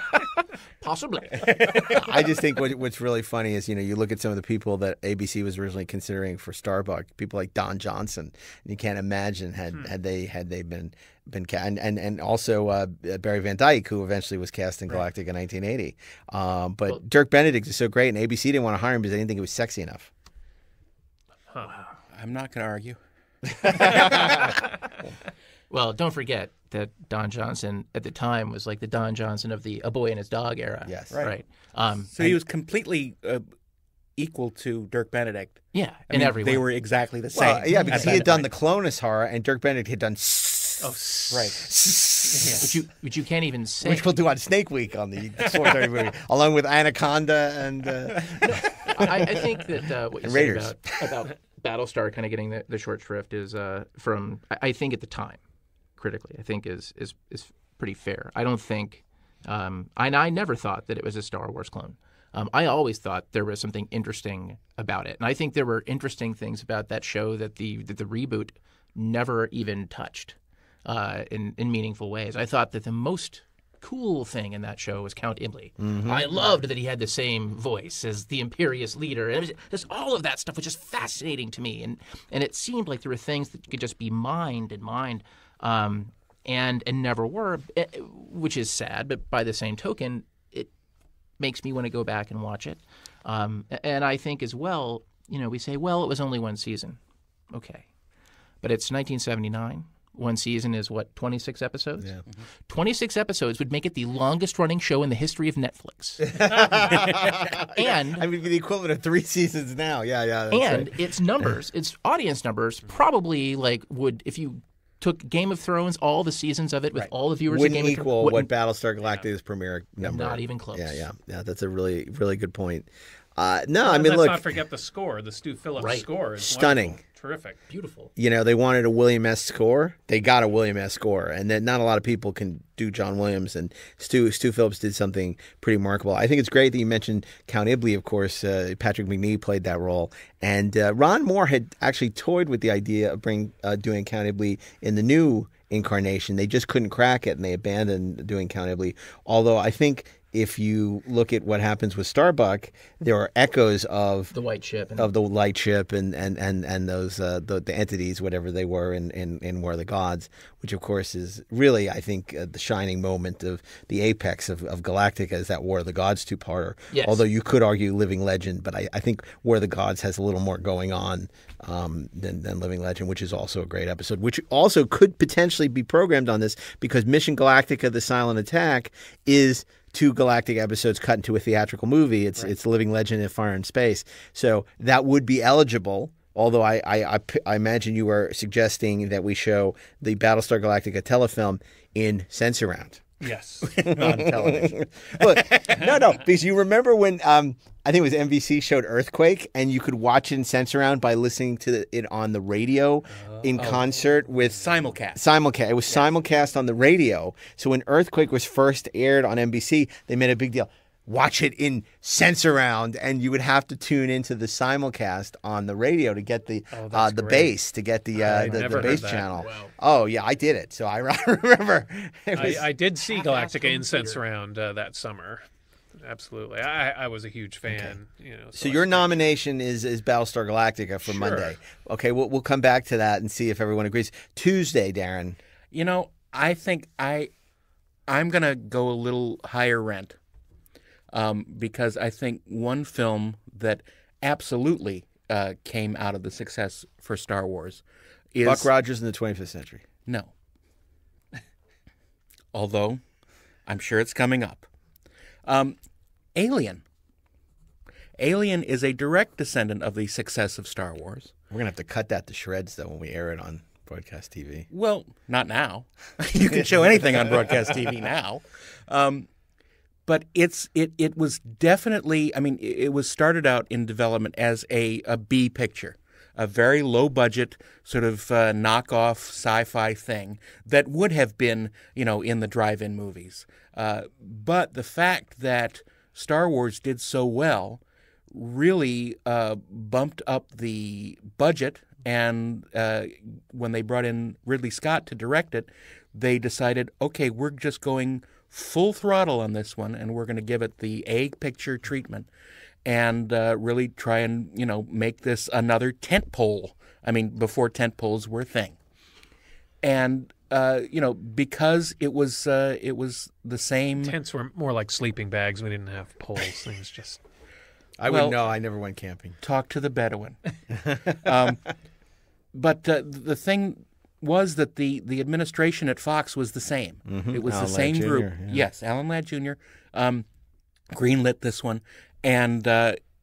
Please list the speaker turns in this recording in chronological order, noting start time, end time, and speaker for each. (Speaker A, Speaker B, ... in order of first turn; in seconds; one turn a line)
Speaker A: 0.8-2.0
Speaker B: 1.4-2.0
Speaker C: 1.9-20.1
Speaker B: 22.1-23.0
Speaker C: 23.6-24.4
Speaker A: 23.9-24.5
Speaker A: 25.7-32.2
Speaker C: 30.9-31.3
Speaker B: 32.1-33.4
Speaker B: 34.2-38.4
Speaker A: 35.7-36.7
Speaker C: 37.4-40.9
Speaker A: 37.7-38.4
Speaker D: 40.8-42.7
Speaker B: 41.3-41.7
Speaker C: 41.7-42.7
Speaker A: 42.6-44.1
Speaker C: 43.8-49.6
Speaker A: 48.4-55.4
Speaker C: 50.2-51.2
Speaker A: 56.0-90.7
Speaker C: 75.8-76.3
Speaker A: 91.4-97.0
Speaker A: 97.5-97.9
Speaker A: 98.6-102.1
Speaker A: 102.7-108.2
Speaker C: 106.2-110.9
Speaker A: 110.5-118.5
Speaker C: 117.5-124.5
Speaker A: 120.0-121.0
Speaker D: 123.8-127.6
Speaker A: 125.8-126.1
Speaker C: 126.4-127.0
Speaker A: 127.7-128.1
Speaker C: 128.2-154.3
Speaker A: 154.3-155.1
Speaker C: 155.0-193.1
Speaker A: 166.9-167.2
Speaker D: 193.2-193.7
Speaker B: 193.7-195.9
Speaker C: 193.7-222.7
Speaker D: 203.1-203.8
Speaker B: 203.6-205.2
Speaker D: 216.7-217.5
Speaker D: 218.2-219.3
Speaker A: 218.4-219.7
Speaker D: 222.3-225.4
Speaker A: 223.0-224.2
Speaker D: 226.0-229.3
Speaker C: 227.7-227.9
Speaker C: 228.6-235.4
Speaker D: 231.1-231.5
Speaker B: 235.7-237.3
Speaker B: 238.1-240.2
Speaker B: 241.1-247.8
Speaker B: 248.3-248.7
Speaker C: 248.4-249.8
Speaker B: 250.1-250.3
Speaker B: 252.5-253.0
Speaker B: 253.7-254.7
Speaker B: 255.5-255.8
Speaker B: 256.4-256.8
Speaker B: 258.2-261.3
Speaker C: 261.5-264.7
Speaker B: 264.7-269.3
Speaker B: 270.1-302.3
Speaker B: 302.9-308.8
Speaker B: 309.8-314.2
Speaker D: 314.0-317.2
Speaker C: 318.0-319.4
Speaker B: 318.1-318.4
Speaker B: 319.4-320.4
Speaker C: 320.9-321.1
Speaker B: 321.2-321.6
Speaker B: 322.5-330.3
Speaker C: 327.1-328.6
Speaker B: 330.9-333.0